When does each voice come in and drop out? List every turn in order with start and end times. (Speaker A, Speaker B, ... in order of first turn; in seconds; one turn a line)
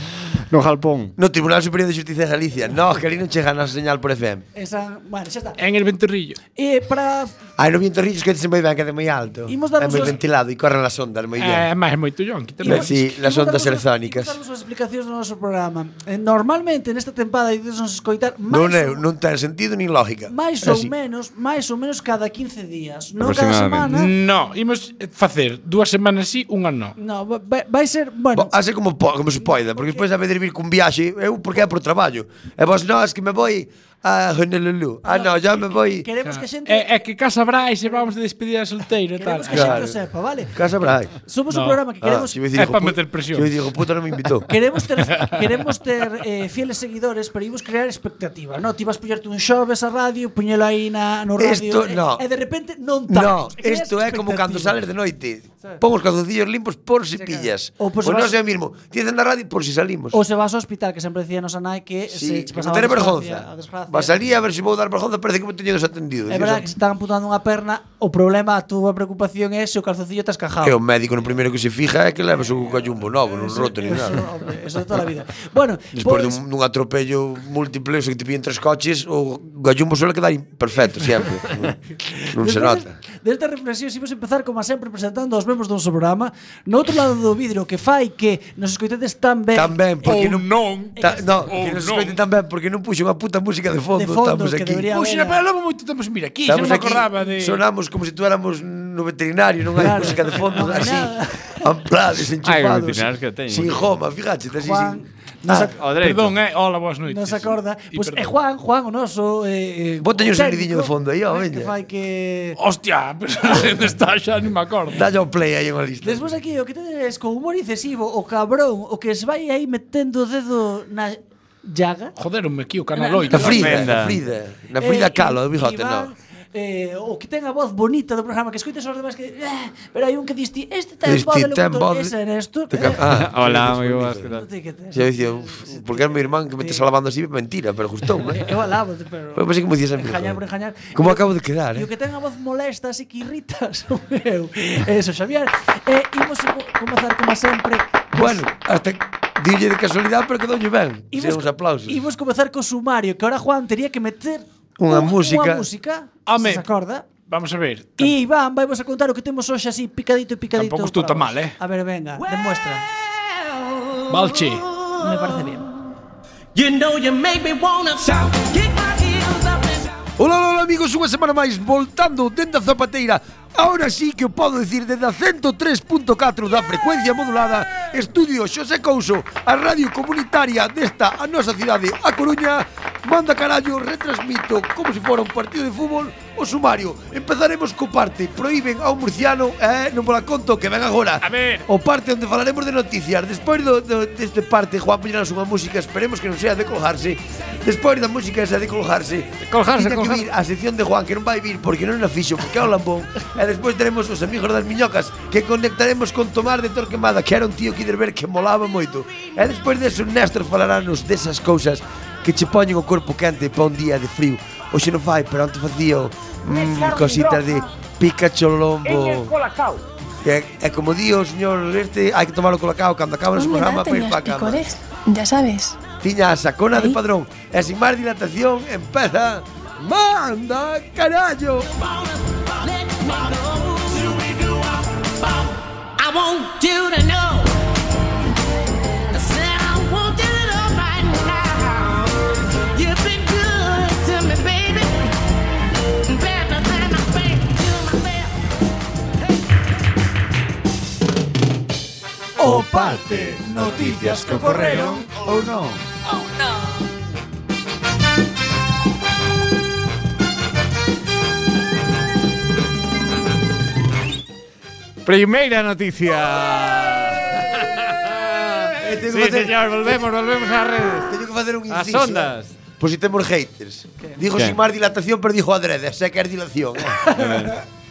Speaker A: 0.4-1.1
Speaker B: 1.2-4.4
Speaker C: 4.5-5.6
Speaker D: 5.6-6.4
Speaker C: 6.5-7.3
Speaker B: 7.6-11.7
Speaker C: 9.5-10.2
Speaker D: 11.4-12.9
Speaker C: 12.6-19.0
Speaker B: 12.6-14.4
Speaker B: 18.5-20.9
Speaker C: 20.3-24.1
Speaker A: 23.2-23.9
Speaker D: 23.9-26.9
Speaker C: 27.0-28.5
Speaker B: 28.3-36.1
Speaker C: 29.4-30.1
Speaker C: 35.0-36.9
Speaker D: 36.2-39.9
Speaker C: 39.2-40.5
Speaker B: 39.5-40.0
Speaker B: 40.5-41.2
Speaker C: 41.2-42.4
Speaker D: 41.5-41.8
Speaker B: 42.0-44.5
Speaker D: 42.5-43.7
Speaker C: 44.5-54.7
Speaker D: 45.1-45.4
Speaker B: 51.4-52.2
Speaker B: 53.1-60.2
Speaker C: 57.1-58.3
Speaker C: 60.1-64.2
Speaker B: 62.1-66.7
Speaker C: 66.3-70.8
Speaker B: 70.6-74.2
Speaker C: 73.2-76.4
Speaker B: 75.9-81.8
Speaker B: 82.3-82.9
Speaker C: 82.3-89.8
Speaker B: 89.5-94.9
Speaker D: 90.0-92.2
Speaker C: 91.0-91.4
Speaker C: 94.0-95.4
Speaker D: 94.9-97.6
Speaker B: 96.5-105.0
Speaker C: 99.8-101.6
Speaker A: 102.4-103.9
Speaker C: 104.6-105.8
Speaker A: 105.5-106.3
Speaker D: 106.0-108.3
Speaker C: 107.1-112.6
Speaker B: 110.0-111.7
Speaker D: 112.6-115.0
Speaker B: 114.9-116.3
Speaker C: 116.0-122.1
Speaker D: 122.2-123.8
Speaker C: 123.0-123.9
Speaker B: 123.3-126.1
Speaker A: 123.4-124.2
Speaker C: 124.8-133.0
Speaker B: 131.0-132.1
Speaker B: 132.7-134.2
Speaker A: 133.0-134.4
Speaker C: 134.2-136.8
Speaker B: 134.9-138.5
Speaker C: 138.3-148.4
Speaker B: 139.3-140.4
Speaker B: 140.9-141.9
Speaker B: 148.1-152.0
Speaker C: 151.1-157.1
Speaker B: 154.8-155.7
Speaker D: 156.3-156.7
Speaker D: 157.3-158.1
Speaker C: 158.0-162.8
Speaker D: 160.5-161.6
Speaker E: 163.5-165.5
Speaker D: 164.1-164.7
Speaker C: 165.0-165.7
Speaker E: 166.5-170.0
Speaker B: 170.2-219.3
Speaker D: 191.2-191.7
Speaker A: 199.4-200.3
Speaker E: 216.5-217.6
Speaker E: 218.8-219.8
Speaker B: 220.2-224.7
Speaker F: 223.3-225.8
Speaker B: 226.0-231.7
Speaker F: 226.7-227.0
Speaker E: 231.7-237.5
Speaker E: 239.1-242.2
Speaker E: 242.7-245.1
Speaker E: 246.1-248.3
Speaker C: 252.4-255.1
Speaker B: 253.8-255.8
Speaker A: 254.2-254.7
Speaker A: 265.0-272.6
Speaker B: 268.8-270.0
Speaker B: 271.0-277.2
Speaker A: 274.3-274.6
Speaker A: 277.1-277.6